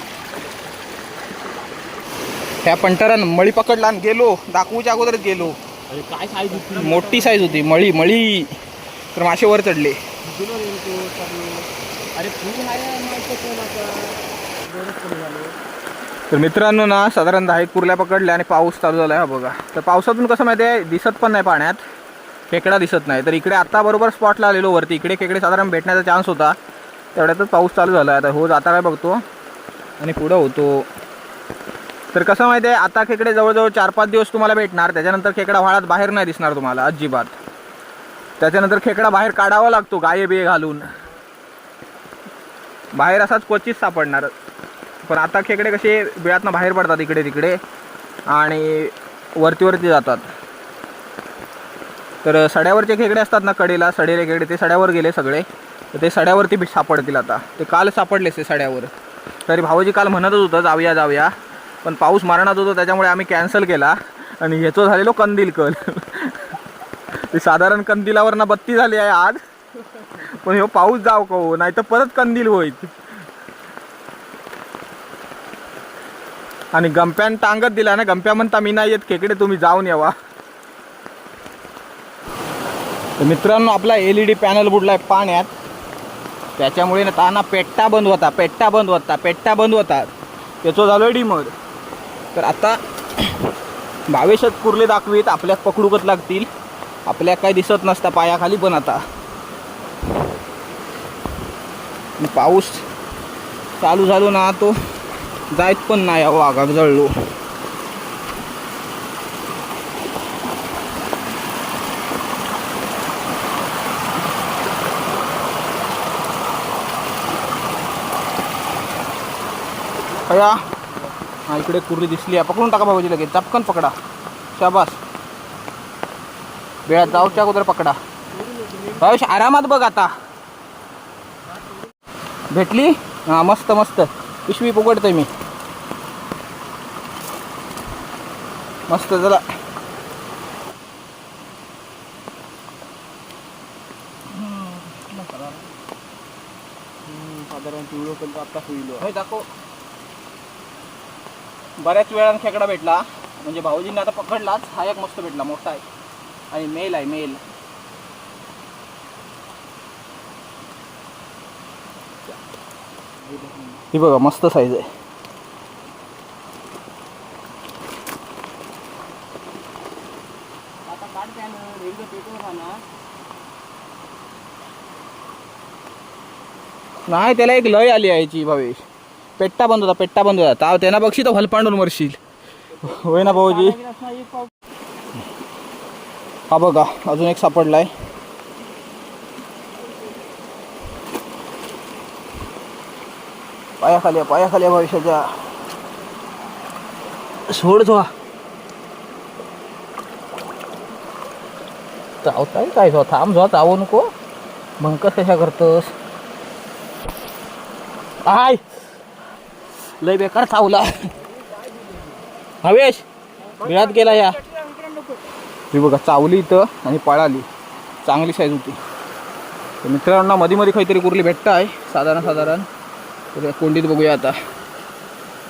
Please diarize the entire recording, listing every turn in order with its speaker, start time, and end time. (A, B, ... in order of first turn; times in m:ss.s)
0:02.6-0:05.6 A
0:05.9-0:07.7 B
0:06.8-0:08.5 A
0:09.1-0:10.0 A
0:10.2-0:15.6 B
0:16.3-0:21.8 A
0:22.5-0:26.6 A
0:27.1-0:29.2 A
0:30.0-0:30.9 A
0:32.1-0:37.4 A
0:38.4-0:40.9 A
0:43.0-0:44.3 A
0:45.0-0:47.6 A
0:48.3-0:50.3 A
0:52.2-0:58.9 A
0:59.5-1:01.3 A
1:01.8-1:06.6 A
1:07.1-1:09.4 A
1:10.1-1:12.9 A
1:16.7-1:20.1 A
1:23.2-1:25.5 A
1:26.6-1:30.1 A
1:30.6-1:31.5 A
1:32.3-1:33.4 A
1:34.1-1:36.5 A
1:37.1-1:39.0 A
1:42.2-1:42.8 A
1:43.8-1:44.8 A
1:45.5-1:47.1 A
2:00.3-2:00.6 A
2:01.5-2:03.9 A
2:04.6-2:05.0 A
2:06.9-2:08.0 A
2:07.0-2:07.5 B
2:08.3-2:09.2 B
2:09.0-2:10.1 A
2:12.5-2:15.3 A
2:18.9-2:19.4 A
2:24.3-2:25.7 A
2:27.0-2:29.1 B
2:29.0-2:29.5 A
2:31.8-2:35.8 A
2:36.5-2:37.4 A
2:43.2-2:43.8 B
2:43.9-2:44.8 A
2:50.9-2:52.8 B
2:57.1-2:58.8 A
2:59.4-3:02.2 A
3:02.8-3:03.8 A
3:02.8-3:04.5 B
3:06.5-3:07.9 A
3:13.8-3:15.3 A
3:17.5-3:18.1 A
3:22.2-3:24.1 A
3:24.8-3:25.9 A
3:28.2-3:28.6 A
3:30.0-3:31.1 A
3:31.4-3:32.2 B
3:32.6-3:33.0 A
3:33.6-3:35.2 B
3:33.6-3:34.4 A
3:35.7-3:37.4 A
3:38.0-3:38.8 A
3:39.8-3:42.7 A
3:43.3-3:44.3 A